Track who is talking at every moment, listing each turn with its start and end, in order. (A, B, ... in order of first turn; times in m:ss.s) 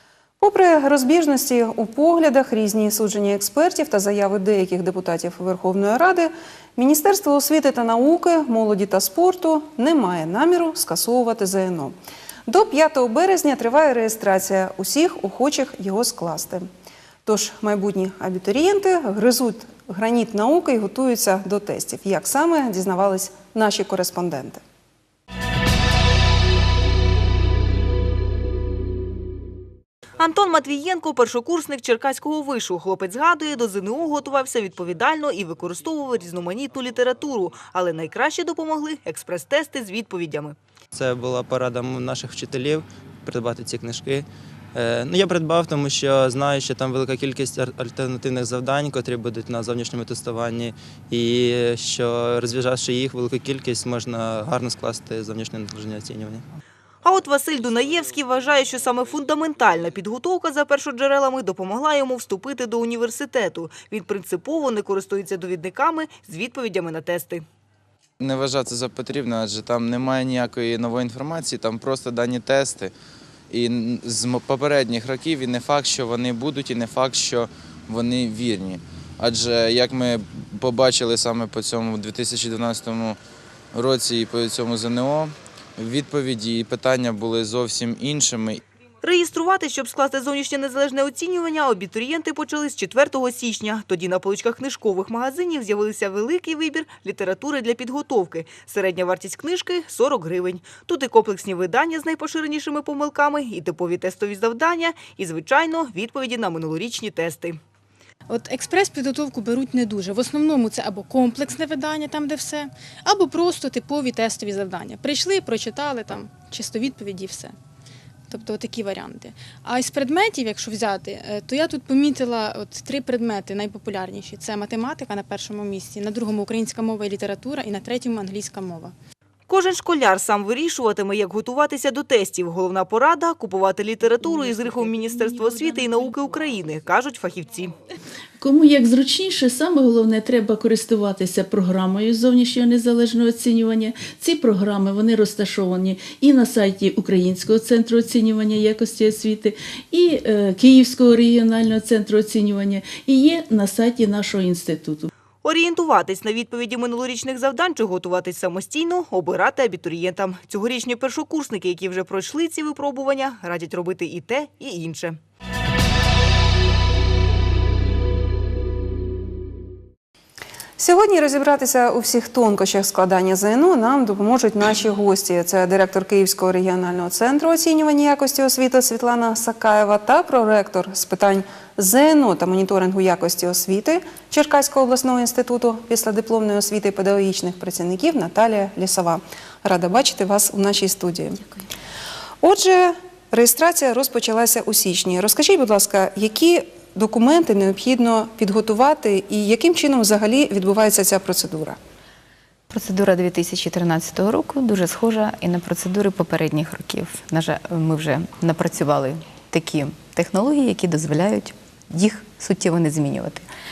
0:00.4-0:12.0 A
0:12.5-0:16.7 A
0:17.3-0:24.6 A
0:30.2-0:40.5 B
0:41.0-0:56.4 C
0:57.0-1:07.4 B
1:08.2-1:12.9 D
1:13.5-1:23.2 D
1:23.7-1:28.6 D
1:29.0-1:47.6 B
1:48.3-1:57.5 E
1:58.3-2:08.9 E
2:09.5-2:17.7 B
2:18.4-2:35.1 F
2:35.4-2:45.2 B
2:50.8-3:11.5 A
3:12.4-3:21.8 A
3:22.7-3:33.4 G